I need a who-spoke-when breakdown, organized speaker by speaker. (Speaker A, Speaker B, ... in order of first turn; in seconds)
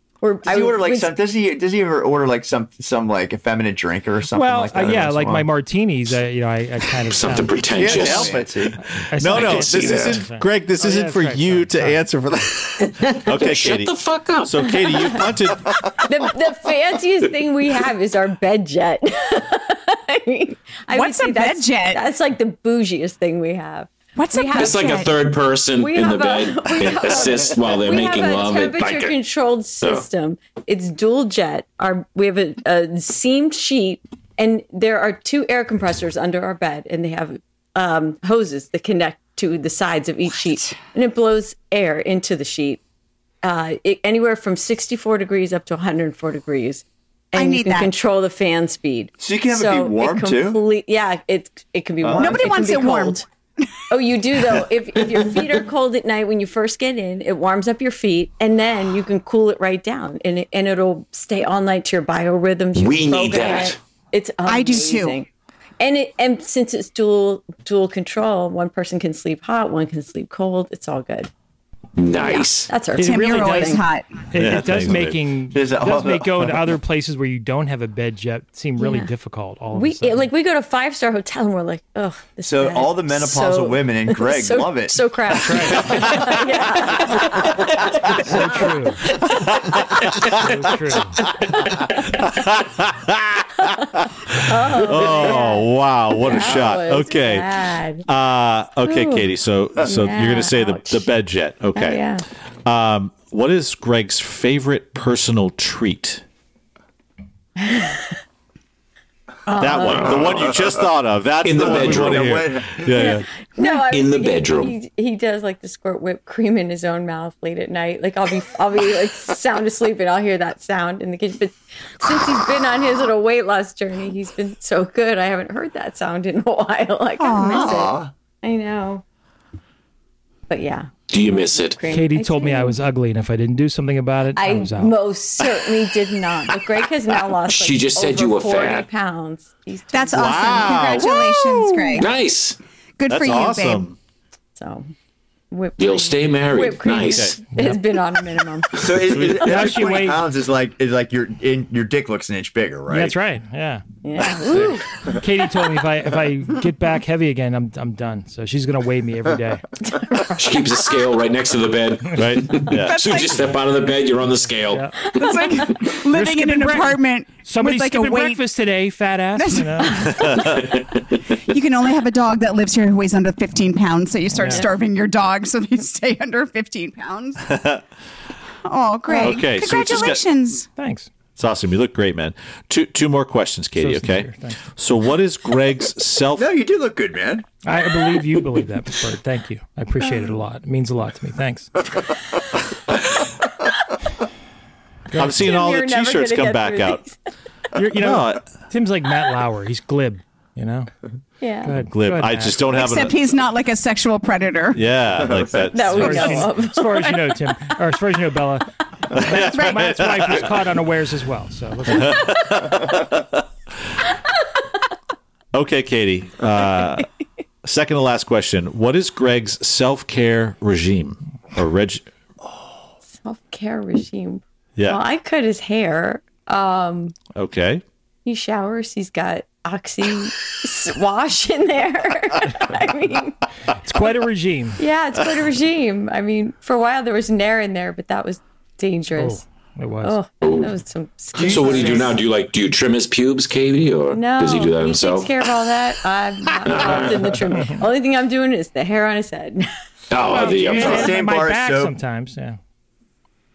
Speaker A: 0.2-1.1, 14.7-15.2, 16.0-25.1, 25.8-42.8, 43.4-53.2, 53.9-65.3, 65.8-71.3, 72.2-73.8, 78.8-79.1, 79.7-90.2, 91.7-92.2, 93.8-98.0, 98.8-99.3, 99.8-101.1, 101.7-102.2, 107.6-108.2, 109.5-110.2, 112.9-129.0, 130.5-132.8, 134.4-141.1, 144.6-144.9, 145.5-148.8, 154.0-154.9, 159.8-161.1, 195.4-197.2, 201.4-201.7, 205.7-207.4, 223.2-227.2, 228.2-233.4, 234.8-239.4, 240.0-242.2, 244.1-249.7, 250.7-251.1
Speaker B: 0.5-5.5, 7.8-8.8, 49.2-50.6, 52.0-52.5, 75.5-76.5, 82.5-85.0, 110.1-110.8, 111.5-113.1, 127.4-128.1, 148.8-153.2, 186.4-187.5, 205.1-205.8, 241.4-242.1, 250.4-251.9
Speaker C: 4.3-7.6, 8.9-12.0, 73.0-80.2, 85.4-86.0, 88.1-89.2, 90.3-91.2, 131.9-134.9, 147.5-147.8, 149.4-150.2, 152.9-153.8, 154.4-159.6, 164.7-164.9, 166.1-170.1, 174.3-174.6, 180.8-181.1, 183.8-184.6, 187.7-191.8, 195.1-195.5, 197.8-200.9, 201.6-202.6, 205.9-212.3, 233.8-234.8, 239.2-240.2, 250.3-252.6
Speaker D: 7.1-8.4, 9.3-10.2, 13.3-14.7, 24.6-29.2, 62.8-63.8, 72.0-72.7, 109.8-110.4, 111.4-112.4, 113.9-114.7, 131.1-131.8, 137.5-138.9, 142.0-142.6, 145.8-147.4, 160.4-164.9, 240.4-240.7, 241.4-245.3, 246.7-247.4, 250.1-251.2
Speaker E: 7.8-15.8, 74.4-75.2, 85.9-86.3, 89.3-90.6, 91.5-97.5, 98.1-102.0, 102.7-106.2, 109.6-113.3, 140.1-142.1, 143.1-144.0, 147.1-147.4, 162.1-163.1, 170.1-170.6, 177.4-177.8, 179.2-180.2, 181.4-186.5, 195.2-197.0, 198.0-198.5, 201.9-203.2, 204.7-206.5, 209.2-210.5, 211.9-213.9, 215.5-217.1, 217.6-222.1, 227.3-227.8
Speaker F: 20.9-22.1, 24.2-25.1, 47.4-47.9, 52.1-53.2, 64.5-65.2, 73.0-74.1, 127.2-127.9, 139.9-142.1, 143.0-143.9, 162.7-163.5, 165.2-168.4, 169.4-170.5, 171.4-177.4, 178.7-180.7, 202.7-204.8, 209.3-209.8